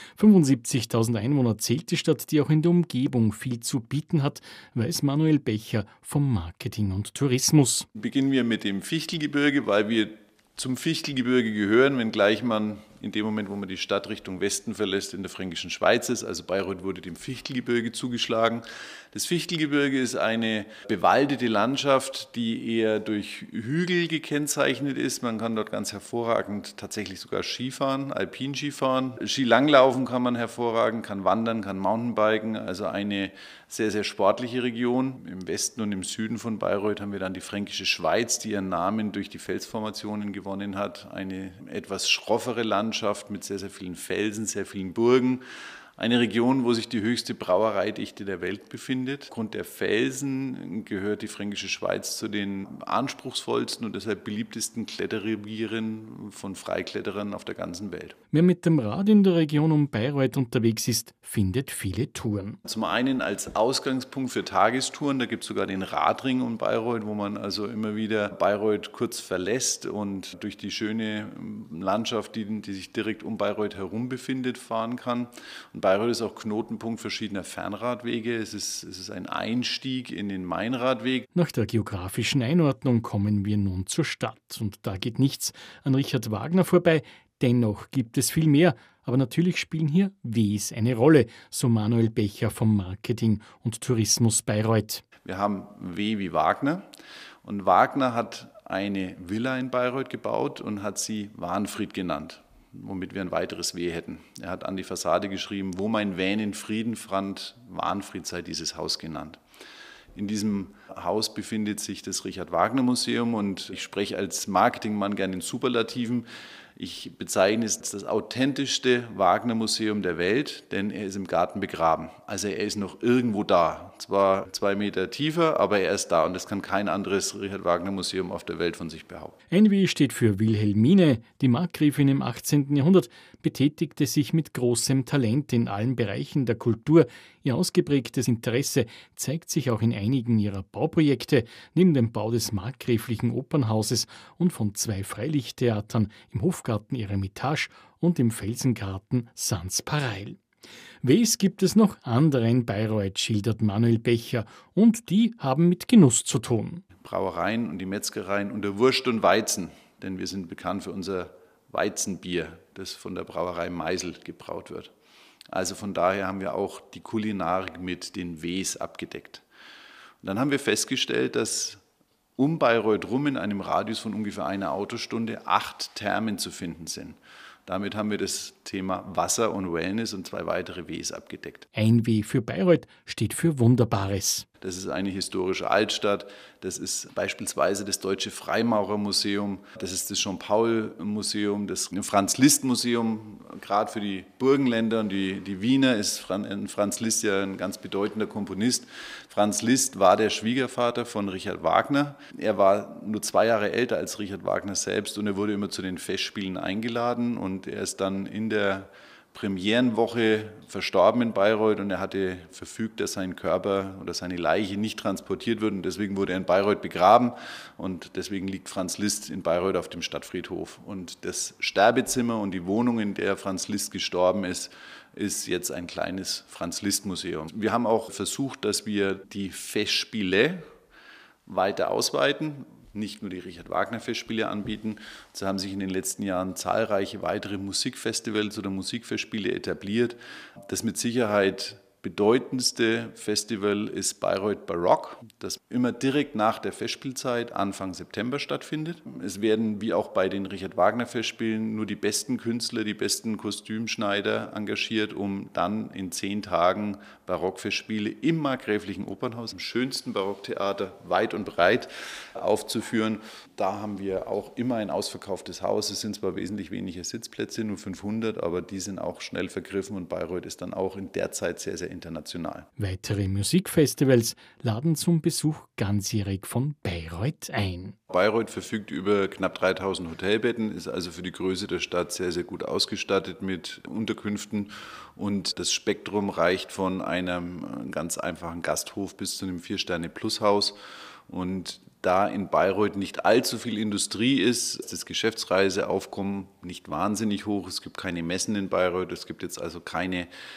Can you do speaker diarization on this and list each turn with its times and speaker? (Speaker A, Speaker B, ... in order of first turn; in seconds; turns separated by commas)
Speaker A: 0.2-7.9, Speaker B: 8.0-45.4, Speaker B: 46.0-58.1, Speaker A: 58.3-62.6, Speaker B: 62.6-81.3, Speaker A: 81.3-95.0, Speaker B: 95.2-96.8, Speaker B: 97.4-109.4, Speaker B: 110.1-129.4, Speaker A: 129.5-150.4, Speaker A: 151.0-156.8, Speaker B: 157.0-164.9, Speaker B: 165.5-169.4, Speaker B: 170.2-171.8, Speaker B: 172.4-181.7, Speaker A: 181.7-184.4, Speaker B: 184.6-230.6, Speaker B: 231.4-240.2, Speaker B: 240.7-272.7, Speaker A: 272.8-278.0, Speaker B: 278.1-290.8, Speaker B: 291.3-300.3